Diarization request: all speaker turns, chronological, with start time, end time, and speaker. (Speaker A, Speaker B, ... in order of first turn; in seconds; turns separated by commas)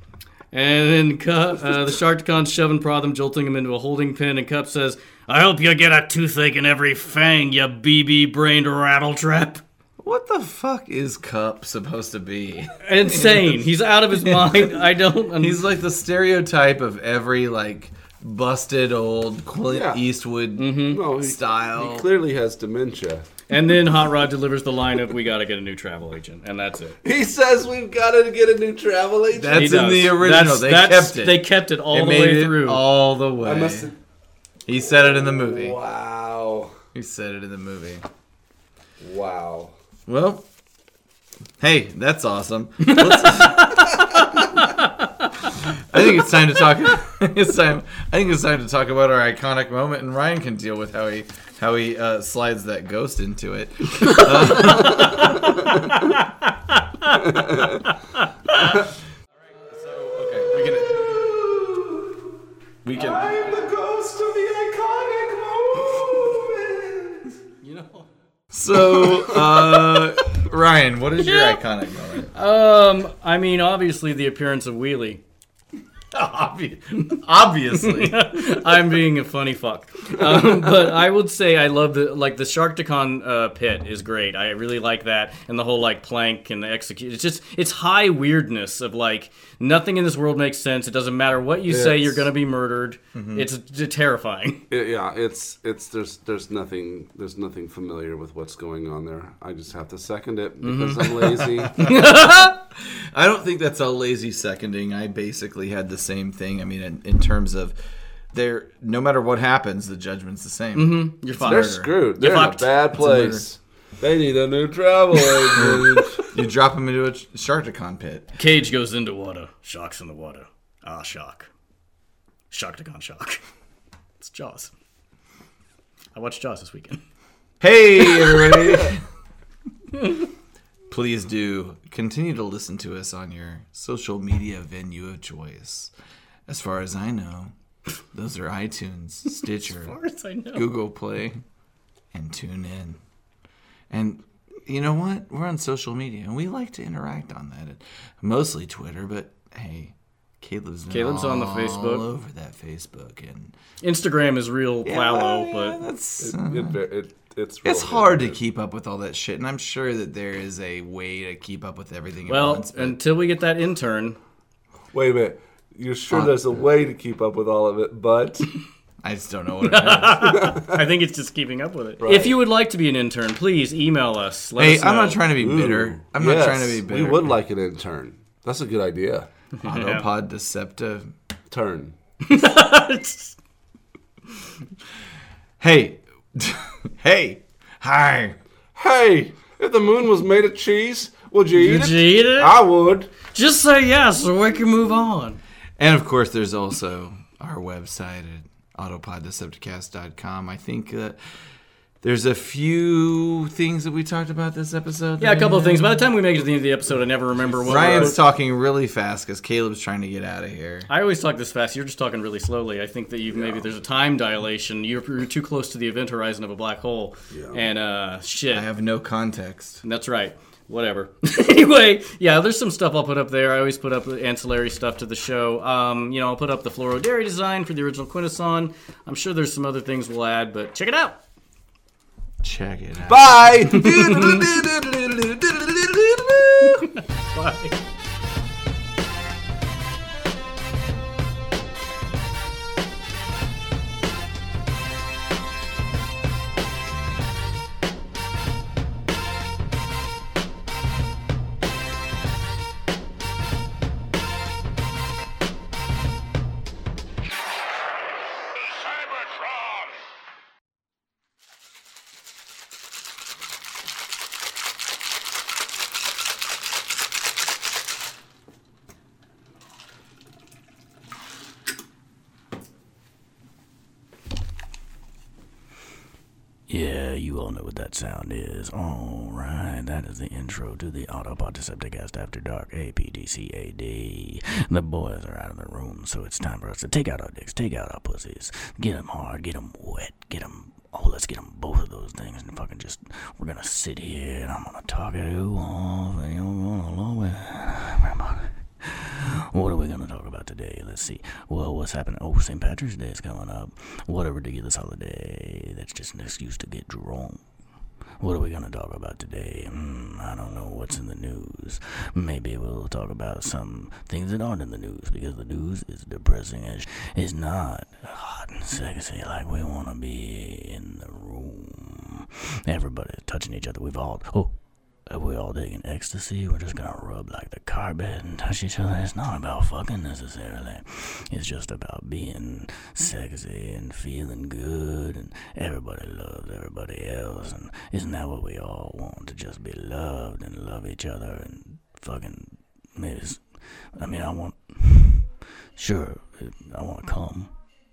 Speaker A: 0.5-9.6, Speaker B: 10.0-22.1, Speaker A: 12.8-15.6, Speaker C: 19.7-20.0, Speaker A: 20.6-21.0, Speaker C: 20.9-23.3, Speaker A: 23.5-26.9, Speaker C: 27.0-30.0, Speaker B: 29.3-33.9, Speaker A: 29.5-32.8, Speaker C: 33.4-34.0, Speaker B: 34.7-35.8, Speaker C: 35.0-36.8, Speaker B: 36.9-38.0, Speaker C: 39.0-39.7, Speaker B: 40.1-40.4, Speaker B: 41.6-44.0, Speaker A: 42.8-45.1, Speaker B: 45.7-55.7, Speaker A: 54.6-55.3, Speaker C: 54.9-56.1, Speaker A: 56.1-57.2, Speaker C: 57.1-57.9, Speaker B: 59.6-61.4, Speaker B: 62.8-63.4, Speaker C: 63.0-67.2, Speaker B: 65.8-66.2, Speaker A: 67.6-68.1, Speaker B: 68.5-72.3, Speaker A: 71.2-71.6, Speaker A: 72.3-75.2, Speaker B: 76.1-78.7, Speaker A: 77.8-94.6, Speaker C: 91.7-92.3, Speaker B: 93.1-93.5, Speaker C: 94.7-101.9, Speaker A: 100.6-102.5, Speaker B: 101.7-107.7, Speaker B: 108.3-111.9, Speaker A: 110.7-112.9, Speaker C: 111.4-116.3, Speaker B: 112.9-113.4, Speaker B: 116.3-118.3, Speaker A: 118.4-121.5, Speaker A: 122.5-123.4, Speaker A: 124.2-124.7, Speaker A: 126.1-127.0, Speaker B: 127.6-129.0, Speaker A: 128.1-128.8, Speaker B: 130.9-135.9, Speaker B: 136.5-137.5, Speaker B: 138.1-139.9, Speaker A: 139.4-140.7, Speaker B: 140.5-141.4, Speaker B: 142.1-143.0, Speaker B: 143.9-153.5, Speaker A: 150.9-152.0, Speaker A: 153.8-155.8, Speaker B: 154.8-156.8, Speaker C: 156.2-158.4, Speaker B: 157.6-163.0, Speaker A: 162.3-164.2, Speaker C: 164.9-168.5, Speaker B: 166.1-166.5, Speaker B: 169.0-170.4, Speaker A: 169.6-175.2, Speaker C: 170.2-170.8, Speaker C: 172.0-172.3, Speaker B: 174.6-177.3, Speaker C: 175.4-179.3, Speaker A: 179.6-180.1, Speaker B: 179.6-181.1, Speaker C: 181.5-181.9, Speaker A: 182.2-183.3, Speaker B: 185.6-188.4, Speaker C: 188.7-193.1, Speaker A: 191.6-192.6, Speaker A: 193.2-195.4, Speaker B: 195.8-201.2, Speaker B: 202.0-206.1, Speaker A: 205.2-208.2, Speaker C: 207.3-208.2, Speaker B: 207.7-210.9, Speaker A: 210.9-218.7, Speaker C: 213.3-213.6, Speaker C: 217.3-217.6, Speaker B: 218.5-219.8, Speaker A: 219.8-231.2, Speaker B: 232.4-233.8, Speaker C: 233.1-236.9, Speaker A: 233.7-234.5, Speaker A: 236.6-237.8, Speaker D: 276.7-307.4, Speaker D: 308.2-324.5, Speaker D: 325.1-347.5